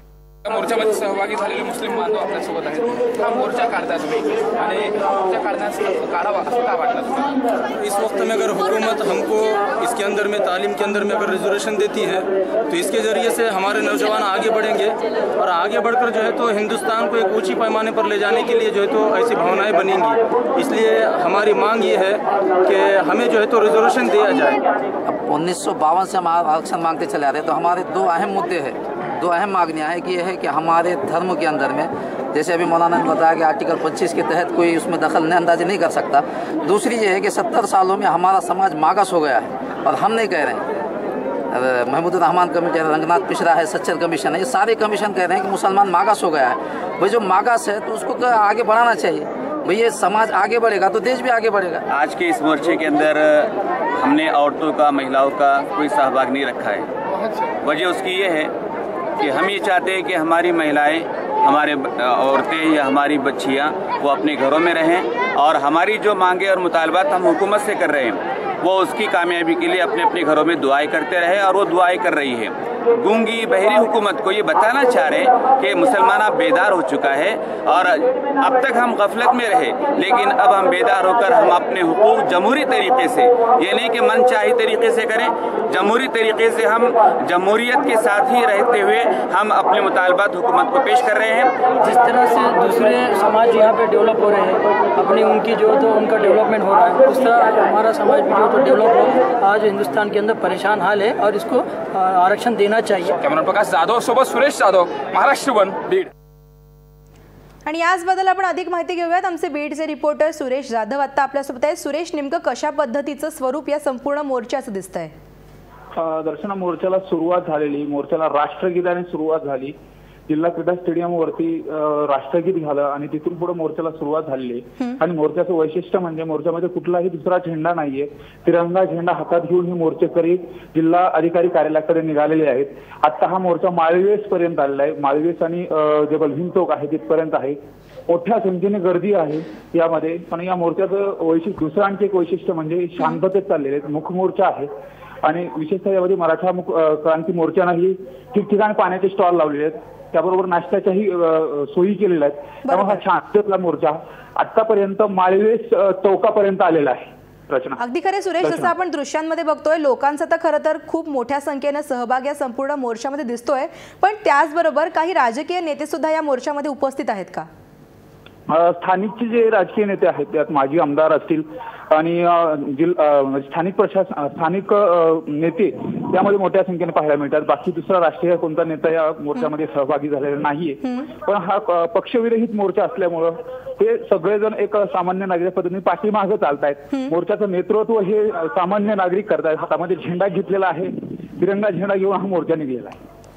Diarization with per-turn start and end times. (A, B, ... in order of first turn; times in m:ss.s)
0:00.4-0:01.9 A
0:00.7-0:24.6 B
0:03.0-0:03.9 A
0:04.4-0:05.3 A
0:25.0-0:40.7 C
0:41.5-0:51.8 C
0:51.9-0:56.9 D
0:57.6-0:58.5 D
0:59.2-1:31.6 D
1:31.8-1:43.2 E
1:43.2-1:46.1 A
1:47.7-1:55.1 F
1:56.0-1:59.8 G
2:00.3-2:24.7 G
2:25.2-2:37.8 G
2:32.7-2:32.9 F
2:37.8-2:47.5 F
2:38.4-2:38.7 G
2:48.5-3:13.0 G